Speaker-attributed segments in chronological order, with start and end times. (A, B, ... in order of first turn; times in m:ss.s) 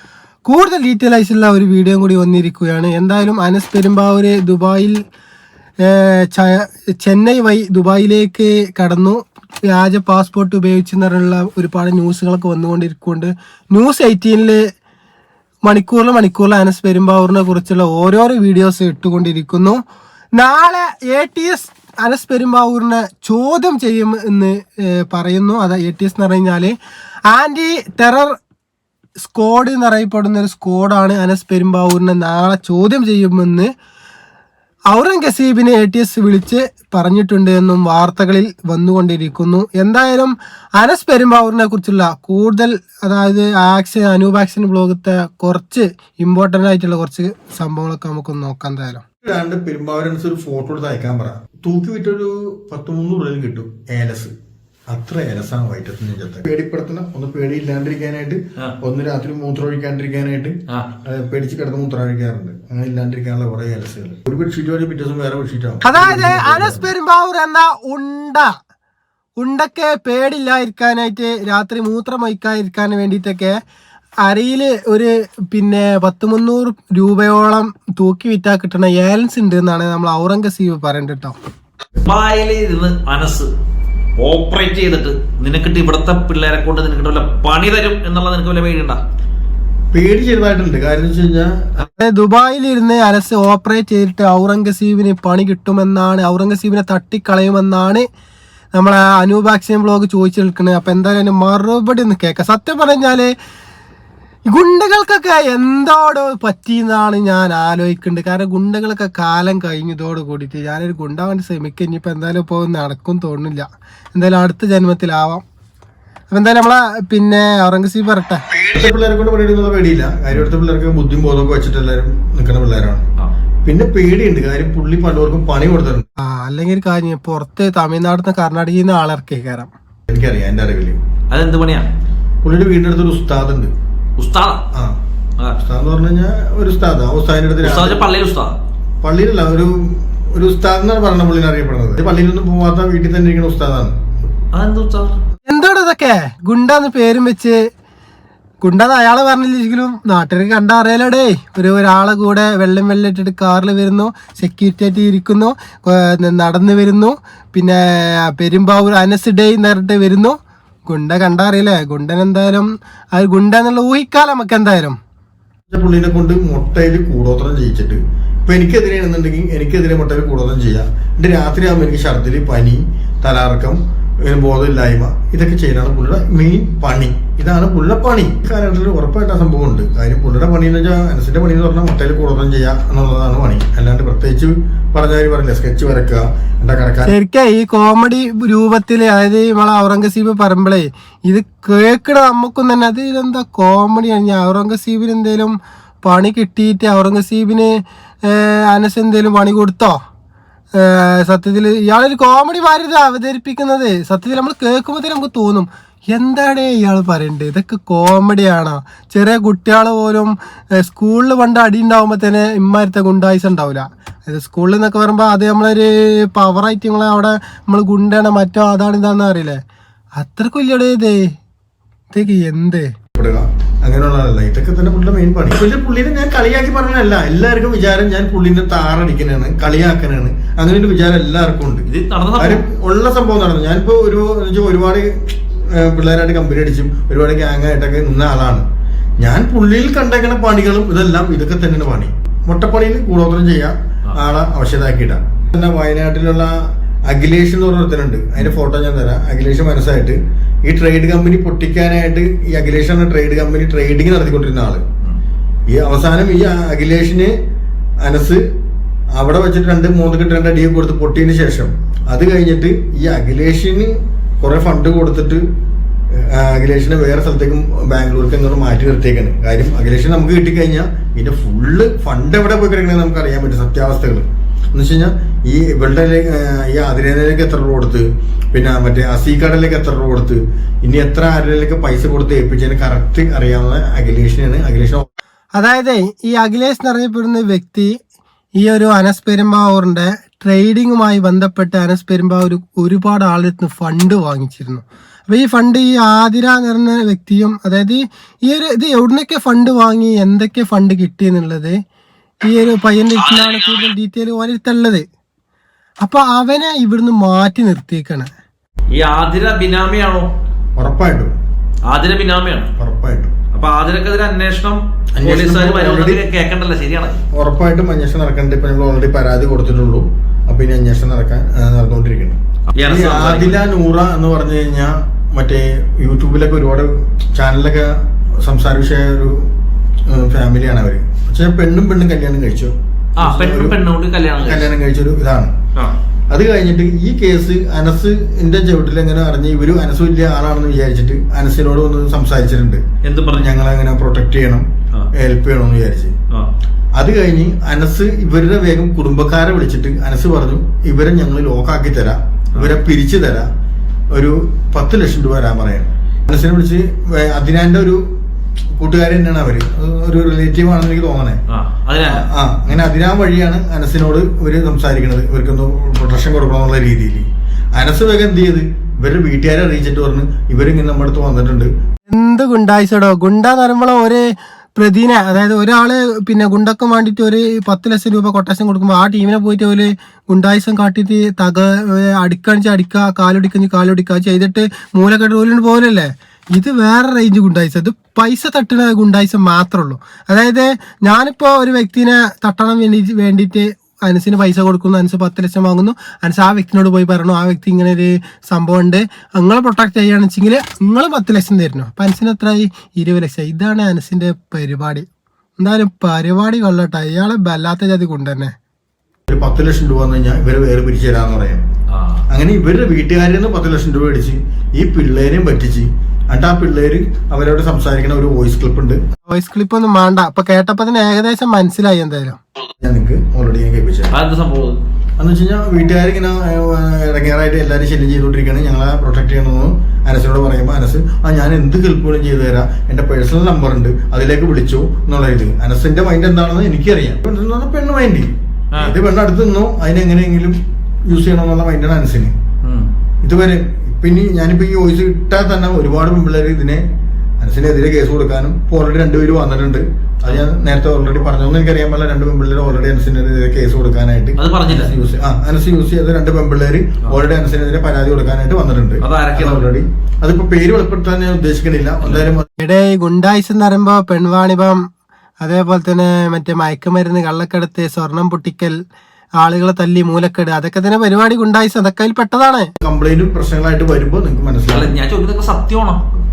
0:00.5-0:05.0 A
0:05.8-0:14.6 A
0:15.7-0:19.8 A
0:20.4-0:26.7 A
0:27.3-0:28.4 A
0:29.2-0:33.7 A
0:34.9-0:49.0 A
0:49.2-0:54.3 B
0:54.9-1:06.8 B
1:05.8-1:08.6 A
1:09.4-1:13.6 A
1:14.2-1:21.4 A
1:22.0-1:23.5 C
1:24.2-1:29.0 C
1:29.9-1:31.9 B
1:32.0-1:38.1 A
1:38.7-1:43.3 A
1:44.5-1:55.4 A
1:56.3-1:58.4 A
1:58.6-2:03.1 B
2:03.6-2:06.0 B
2:06.2-2:09.7 A
2:10.1-2:11.0 B
2:11.3-2:11.9 C
2:12.4-2:13.7 B
2:14.2-2:14.6 C
2:15.6-2:18.1 B
2:17.6-2:18.6 C
2:19.0-2:24.0 B
2:24.5-2:25.2 C
2:25.5-2:27.6 A
2:28.6-2:40.4 A
2:40.9-2:45.0 A
2:45.7-3:07.1 B
3:07.0-3:17.7 A
3:18.2-3:20.0 A
3:20.8-3:39.6 A
3:40.2-3:41.3 A
3:42.1-3:42.9 A
3:43.2-3:58.6 B
3:51.9-3:52.6 C
3:59.2-4:14.8 B
4:15.7-4:17.3 B
4:18.0-4:18.4 B
4:19.2-4:25.4 B
4:26.1-4:45.1 B
4:45.6-4:48.0 A
4:48.6-5:01.8 A
5:02.4-5:05.1 A
5:03.3-5:03.9 C
5:06.0-5:08.3 A
5:09.0-5:10.3 C
5:10.8-5:11.3 B
5:11.9-5:12.7 C
5:12.8-5:13.3 B
5:13.5-5:17.2 C
5:15.2-5:16.2 B
5:17.3-5:29.5 B
5:22.8-5:23.6 C
5:30.1-5:33.8 B
5:33.2-5:34.7 C
5:34.4-5:35.5 B
5:36.3-5:42.8 B
5:43.0-5:43.5 C
5:43.3-5:46.1 B
5:47.0-5:53.5 B
5:54.1-5:58.0 B
5:58.8-6:01.4 B
6:01.5-6:02.3 C
6:02.1-6:11.7 B
6:12.1-6:45.1 A
6:45.6-6:48.5 A
6:49.3-6:51.7 B
6:51.9-6:52.2 C
6:52.3-6:59.0 B
6:59.3-7:02.4 A
7:02.8-7:04.1 B
7:04.1-7:04.8 C
7:05.2-7:22.3 B
7:22.6-7:22.9 C
7:23.2-7:26.8 B
7:27.4-7:42.5 B
7:34.4-7:34.9 C
7:39.0-7:39.7 C
7:42.0-7:42.3 C
7:42.6-7:44.8 A
7:45.4-7:48.8 A
7:49.4-7:52.7 A
7:52.8-7:54.9 B
7:54.7-7:56.0 C